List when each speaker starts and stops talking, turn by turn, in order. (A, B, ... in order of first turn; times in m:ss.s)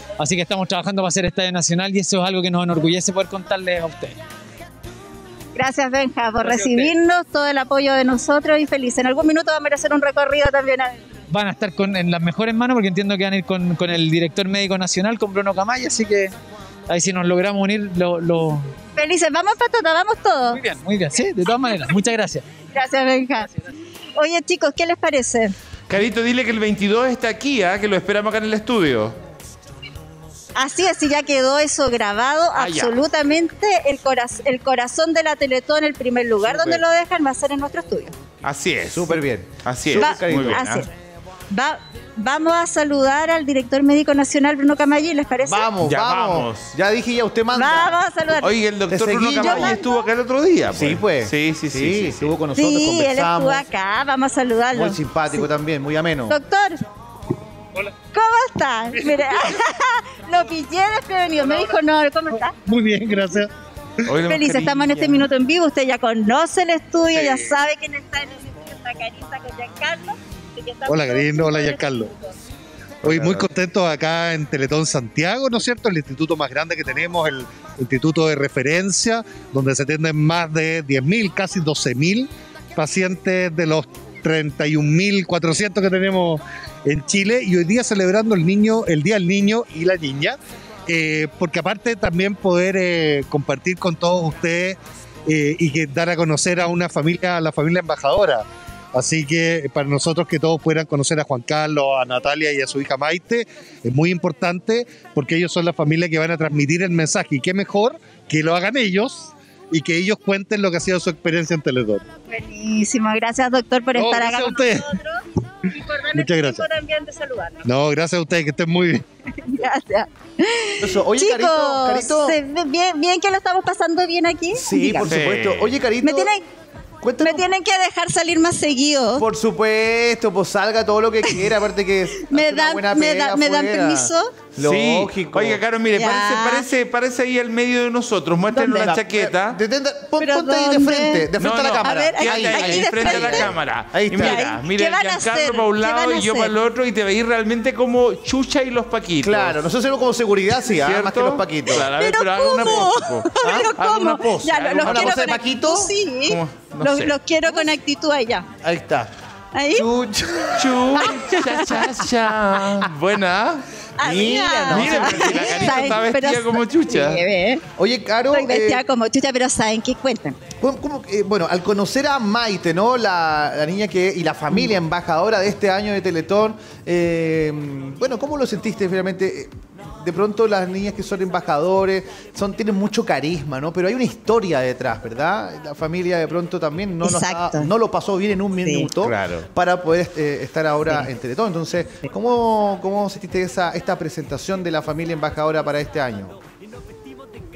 0:00.2-0:04.2 A
0:05.6-0:11.0 B
0:06.4-0:06.9 A
0:11.3-0:16.4 A
0:16.9-0:18.7 A
0:19.0-0:20.6 B
0:20.5-0:22.4 A
0:22.7-0:23.5 B
0:24.2-0:25.6 B
0:25.9-0:29.2 C
0:30.6-0:38.1 B
0:32.6-0:33.0 C
0:36.4-0:36.8 C
0:38.4-0:40.8 C
0:38.9-0:40.7 D
0:39.9-0:40.9 B
0:41.5-0:45.7 B
0:45.4-0:48.0 D
0:45.8-0:46.7 C
0:47.5-0:48.6 B
0:48.4-0:52.3 C
0:48.9-0:49.8 D
0:49.4-0:50.0 B
0:50.7-0:53.7 D
0:52.6-0:55.5 B
0:54.7-0:56.4 D
0:56.3-0:56.8 B
0:58.1-1:02.6 B
1:02.6-1:03.5 E
1:04.1-1:05.3 C
1:04.2-1:12.3 B
1:10.9-1:12.1 E
1:13.0-1:13.5 C
1:13.1-1:52.0 E
1:52.3-1:55.2 B
1:53.9-1:55.0 E
1:55.7-1:57.6 B
1:56.1-1:56.7 E
1:57.6-1:59.0 E
1:59.4-2:05.1 B
2:00.8-2:02.4 D
2:04.6-2:06.3 D
2:05.1-2:05.7 C
2:06.0-2:06.4 B
2:07.0-2:07.5 D
2:07.2-2:09.3 B
2:09.2-2:15.6 D
2:12.3-2:14.3 B
2:14.6-2:19.6 C
2:15.9-2:16.7 B
2:18.5-2:18.9 B
2:18.8-2:24.5 D
2:20.2-2:23.6 B
2:21.4-2:29.6 C
2:24.1-2:26.5 B
2:29.2-2:31.9 D
2:30.6-2:35.3 C
2:31.9-2:38.5 B
2:33.4-2:33.7 D
2:34.8-2:35.9 D
2:36.2-2:37.2 C
2:38.6-2:39.1 D
2:39.5-2:39.9 B
2:39.7-2:41.4 D
2:40.6-2:43.6 C
2:40.9-2:41.9 B
2:44.0-2:47.6 B
2:44.0-2:46.0 D
2:44.6-2:47.2 C
2:47.8-2:48.8 D
2:48.3-2:50.4 B
2:50.6-3:16.4 D
3:07.0-3:07.7 B
3:08.6-3:08.9 B
3:09.0-3:09.5 C